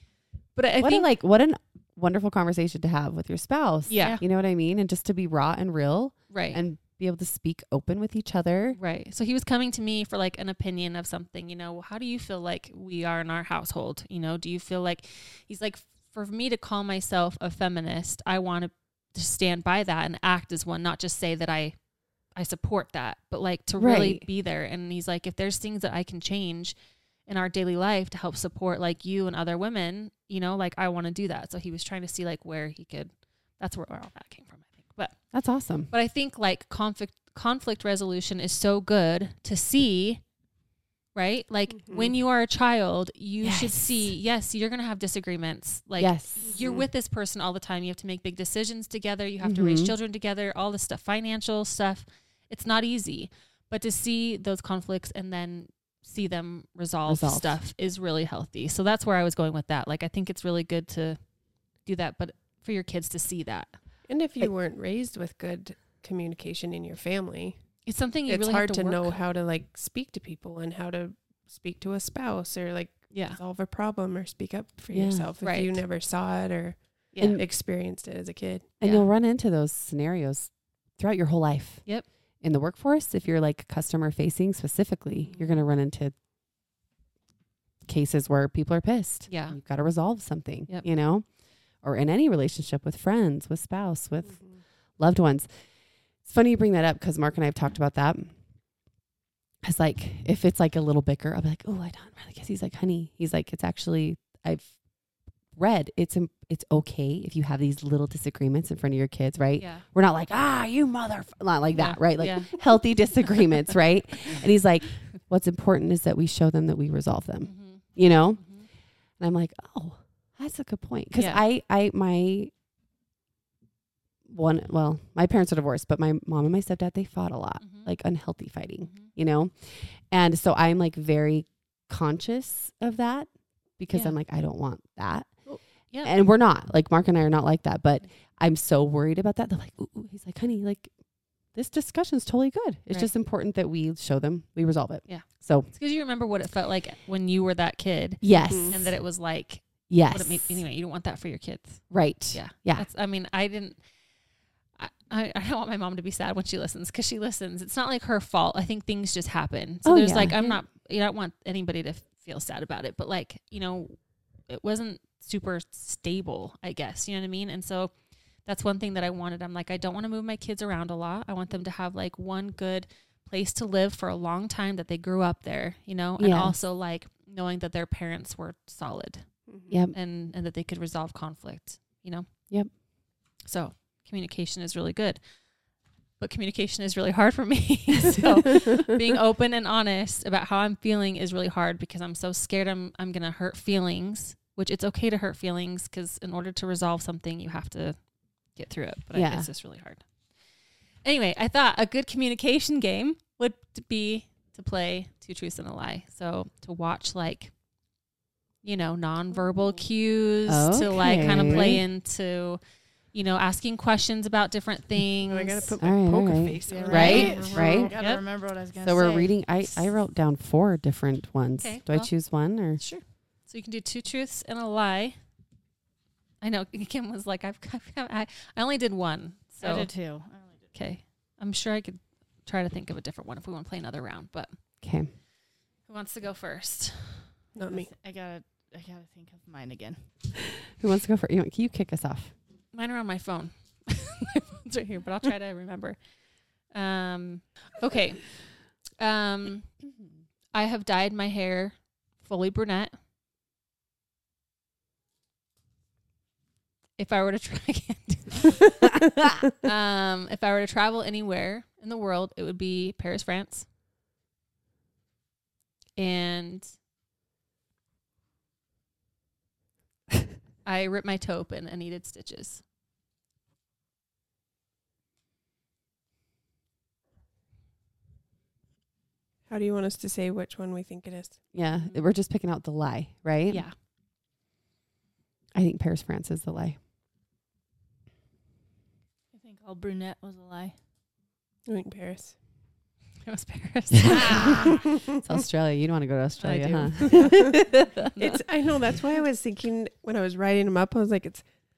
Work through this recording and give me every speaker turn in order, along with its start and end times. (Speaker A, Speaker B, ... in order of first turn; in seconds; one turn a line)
Speaker A: 0.6-1.1
Speaker B: 0.8-8.8
Speaker A: 3.9-4.2
Speaker C: 4.0-4.2
Speaker A: 6.3-6.6
Speaker A: 8.8-21.8
Speaker A: 22.3-26.8
Speaker B: 23.8-24.3
Speaker A: 27.3-35.2
Speaker B: 35.3-35.9
Speaker A: 35.9-40.2
Speaker A: 41.1-61.2
Speaker D: 41.7-42.1
Speaker B: 43.4-44.1
Speaker B: 46.0-46.6
Speaker D: 46.4-46.9
Speaker B: 49.4-49.9
Speaker B: 57.1-57.6
Speaker A: 61.8-63.8
Speaker D: 64.1-67.7
Speaker A: 67.8-69.2
Speaker D: 68.3-78.7
Speaker A: 73.1-73.4
Speaker B: 74.9-75.3
Speaker A: 75.4-75.8
Speaker A: 77.1-77.4
Speaker B: 77.2-77.5
Speaker B: 78.8-86.2
Speaker A: 78.8-79.1
Speaker B: 87.9-98.3
Speaker A: 89.3-89.6
Speaker D: 94.3-94.6
Speaker B: 99.6-104.8
Speaker B: 105.5-118.6
Speaker A: 109.6-109.8
Speaker A: 111.7-112.7
Speaker A: 117.4-118.7
Speaker B: 119.2-122.5
Speaker A: 121.2-121.4
Speaker B: 124.3-145.7
Speaker A: 127.6-127.9
Speaker A: 133.9-134.2
Speaker A: 135.5-136.2
Speaker A: 145.1-153.8
Speaker B: 148.2-148.9
Speaker D: 148.5-148.8
Speaker B: 149.9-150.6
Speaker B: 151.9-152.9
Speaker A: 154.8-167.9
Speaker B: 159.8-160.6
Speaker A: 168.4-182.8
Speaker B: 176.2-176.6
Speaker D: 179.5-179.8
Speaker B: 179.7-180.0
Speaker A: 183.4-185.2
Speaker A: 186.2-198.0
Speaker A: 198.5-200.1
Speaker B: 199.1-199.5
Speaker A: 201.0-207.5
Speaker A: 208.6-215.8
Speaker D: 209.3-209.8
Speaker B: 210.5-211.8
Speaker D: 215.3-217.9
Speaker B: 215.8-218.2
Speaker C: 216.7-219.6
Speaker A: 216.8-218.2
Speaker B: 218.8-222.9
Speaker A: 221.6-225.2
Speaker A: 226.4-230.0
Speaker C: 229.6-230.7
Speaker A: 230.7-234.6
Speaker B: 234.8-235.1
Speaker A: 235.8-237.3
Speaker D: 237.5-237.9
Speaker C: 237.6-240.0
Speaker B: 240.8-242.3
Speaker A: 242.7-246.0
Speaker A: 246.6-249.9
Speaker A: 250.5-252.9
Speaker A: 257.0-263.7
Speaker A: 266.0-266.7
Speaker A: 270.6-272.6
Speaker D: 279.5-281.5
Speaker B: 281.5-283.7
Speaker A: 281.7-282.1
Speaker A: 283.5-283.8
Speaker B: 285.6-286.8
Speaker C: 289.3-290.8
Speaker D: 291.7-292.4
Speaker A: 293.2-294.7
Speaker B: 294.1-297.9
Speaker C: 296.4-297.4
Speaker D: 297.3-297.5
Speaker D: 298.1-301.5